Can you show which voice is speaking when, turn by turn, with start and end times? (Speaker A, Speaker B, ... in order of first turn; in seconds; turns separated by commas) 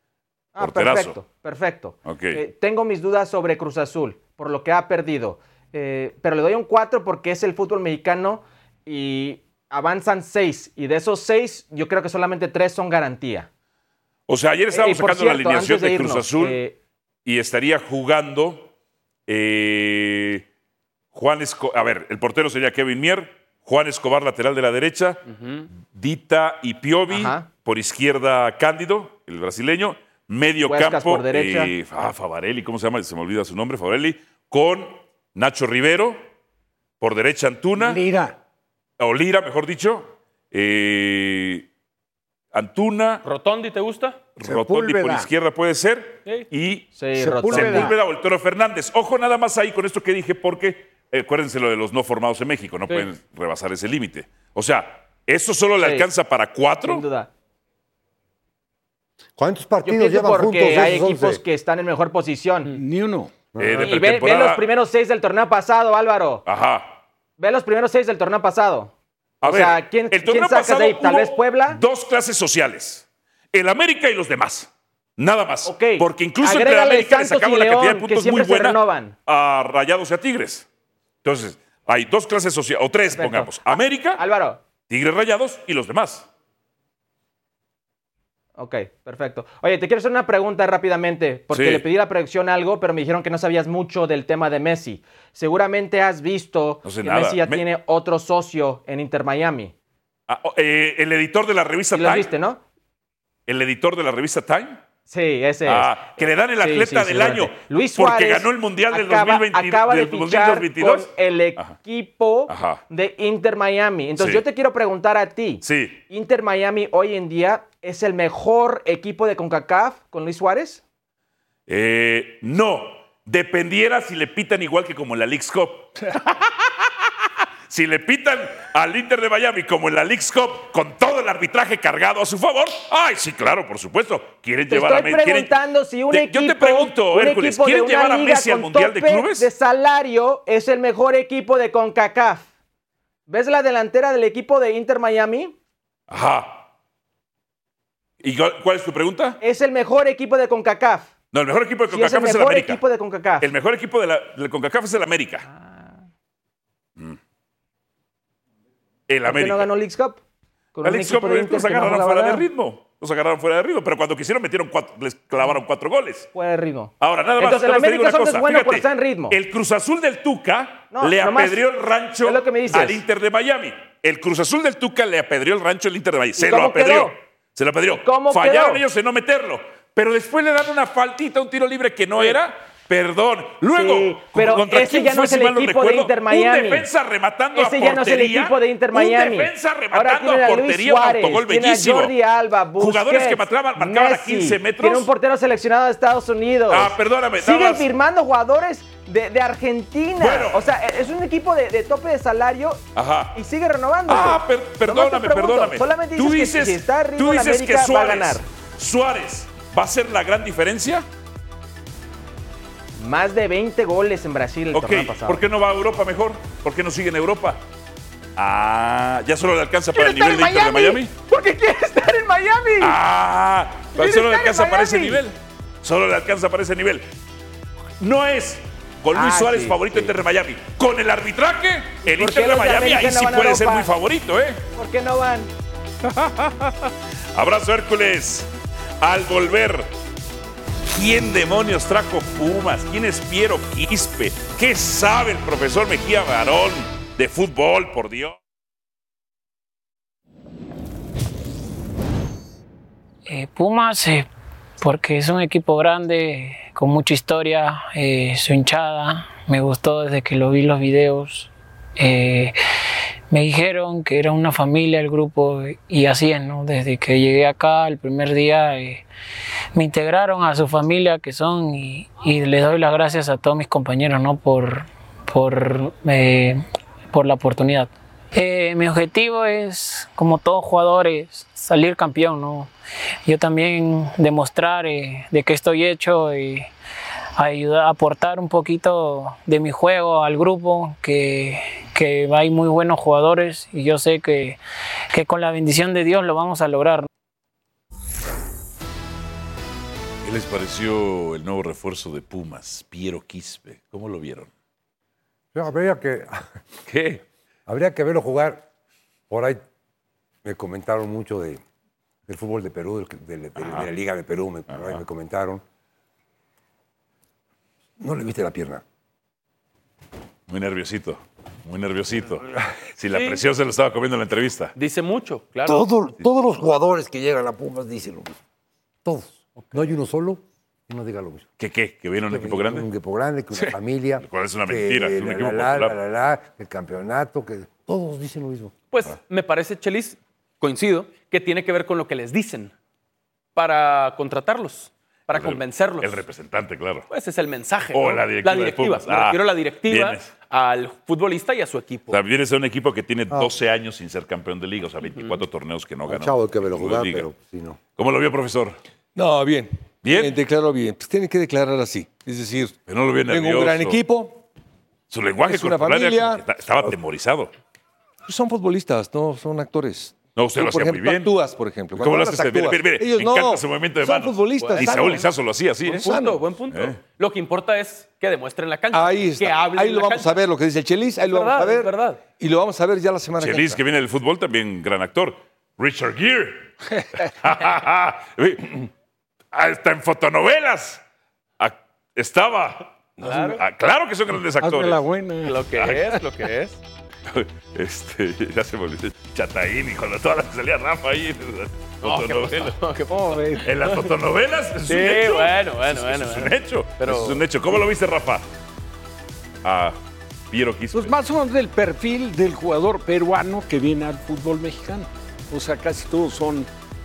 Speaker A: 0.6-13.5, Speaker B: 0.6-1.2, Speaker B: 2.1-2.4, Speaker B: 14.3-16.6, Speaker A: 14.7-16.8, Speaker B: 17.2-18.7, Speaker B: 19.3-20.4, Speaker B: 21.1-36.2, Speaker C: 25.3-25.7, Speaker A: 27.1-27.5, Speaker A: 30.6-31.7, Speaker B: 37.0-38.0, Speaker D: 37.8-38.4, Speaker B: 39.0-41.7, Speaker B: 42.5-43.2, Speaker C: 43.2-44.2, Speaker B: 44.4-57.1, Speaker D: 44.4-45.3, Speaker A: 46.9-47.9, Speaker D: 47.2-48.0, Speaker A: 55.8-56.1, Speaker A: 56.8-57.3, Speaker E: 59.4-61.4, Speaker A: 59.8-62.7, Speaker D: 62.7-63.3, Speaker E: 63.5-63.9, Speaker B: 63.6-64.7, Speaker A: 63.8-66.4, Speaker B: 66.5-67.0, Speaker A: 67.4-68.9, Speaker B: 69.4-80.7, Speaker A: 69.4-71.8, Speaker A: 75.7-79.2, Speaker B: 81.2-84.2, Speaker A: 83.1-84.6, Speaker B: 84.9-86.3, Speaker A: 88.6-99.7, Speaker B: 91.5-91.8, Speaker B: 96.8-97.7, Speaker B: 100.3-102.3, Speaker A: 101.9-102.6, Speaker B: 103.5-104.8, Speaker A: 105.1-120.8, Speaker B: 105.7-111.8, Speaker B: 112.5-112.8, Speaker B: 114.2-114.4, Speaker B: 115.6-116.0, Speaker B: 121.7-126.5, Speaker B: 127.7-135.6, Speaker A: 134.7-142.5, Speaker B: 136.1-139.5, Speaker A: 143.3-145.6, Speaker B: 146.1-146.7, Speaker B: 148.2-149.4, Speaker A: 149.4-151.1, Speaker B: 151.3-152.8, Speaker A: 151.9-153.5, Speaker B: 153.4-155.5, Speaker A: 155.4-156.0, Speaker B: 159.1-159.7, Speaker A: 159.3-160.2, Speaker A: 160.8-162.4, Speaker B: 160.8-166.3, Speaker A: 166.3-169.4, Speaker B: 167.0-192.1, Speaker A: 170.9-171.7, Speaker A: 172.2-173.0, Speaker A: 176.4-177.2, Speaker A: 177.9-178.8, Speaker A: 183.6-186.9, Speaker A: 187.5-202.8, Speaker B: 192.8-195.1, Speaker B: 196.7-197.9, Speaker B: 200.2-200.6, Speaker B: 203.0-203.4, Speaker A: 203.3-208.4, Speaker B: 204.1-211.1, Speaker A: 213.0-215.4, Speaker B: 214.7-217.6, Speaker B: 218.4-221.2, Speaker A: 219.9-223.0, Speaker B: 222.8-227.1, Speaker A: 223.9-225.2, Speaker B: 228.0-234.6, Speaker A: 229.1-230.1, Speaker A: 232.0-233.9, Speaker A: 234.8-235.5, Speaker B: 236.0-238.5, Speaker B: 239.0-239.9, Speaker B: 240.8-248.4, Speaker F: 253.3-254.3, Speaker F: 254.8-262.6, Speaker F: 263.3-269.0, Speaker F: 269.8-282.7, Speaker F: 283.3-286.7, Speaker F: 287.4-294.6, Speaker F: 295.1-297.1, Speaker B: 300.2-304.5, Speaker E: 305.5-306.5, Speaker B: 306.9-307.2, Speaker E: 307.7-308.7, Speaker E: 309.3-309.6, Speaker E: 310.4-311.6, Speaker E: 312.3-315.6, Speaker B: 313.6-313.9, Speaker B: 314.7-315.0, Speaker E: 318.0-318.8, Speaker B: 320.5-322.4, Speaker B: 323.0-324.7, Speaker C: 323.1-323.4, Speaker C: 324.8-325.8, Speaker E: 325.7-328.4, Speaker E: 329.1-331.5, Speaker B: 331.6-332.9, Speaker E: 332.3-338.7, Speaker B: 333.5-336.0, Speaker C: 338.9-342.7, Speaker C: 343.6-346.2, Speaker B: 345.3-347.1, Speaker C: 347.1-352.2, Speaker B: 347.9-350.3, Speaker B: 352.1-357.3, Speaker E: 356.1-357.8, Speaker B: 358.0-358.8, Speaker G: 359.1-362.8, Speaker B: 360.0-360.4, Speaker B: 362.9-364.0, Speaker G: 363.3-364.4, Speaker B: 365.1-367.5, Speaker G: 365.4-366.4, Speaker G: 368.3-375.3, Speaker B: 370.4-371.3, Speaker B: 372.0-376.1, Speaker C: 374.6-375.1, Speaker C: 375.9-380.4, Speaker G: 375.9-376.4, Speaker B: 376.7-377.0, Speaker G: 378.9-383.8, Speaker C: 381.3-382.2, Speaker B: 383.4-386.7, Speaker B: 387.3-388.9, Speaker B: 389.5-391.0, Speaker B: 391.6-395.0, Speaker C: 393.2-393.6, Speaker D: 394.6-395.6, Speaker C: 395.4-396.8, Speaker B: 395.8-396.2, Speaker B: 397.3-402.8, Speaker C: 402.0-403.9, Speaker D: 403.1-403.7, Speaker B: 403.6-408.5, Speaker C: 404.9-407.4, Speaker B: 409.6-410.0, Speaker B: 410.5-411.2, Speaker D: 410.9-416.7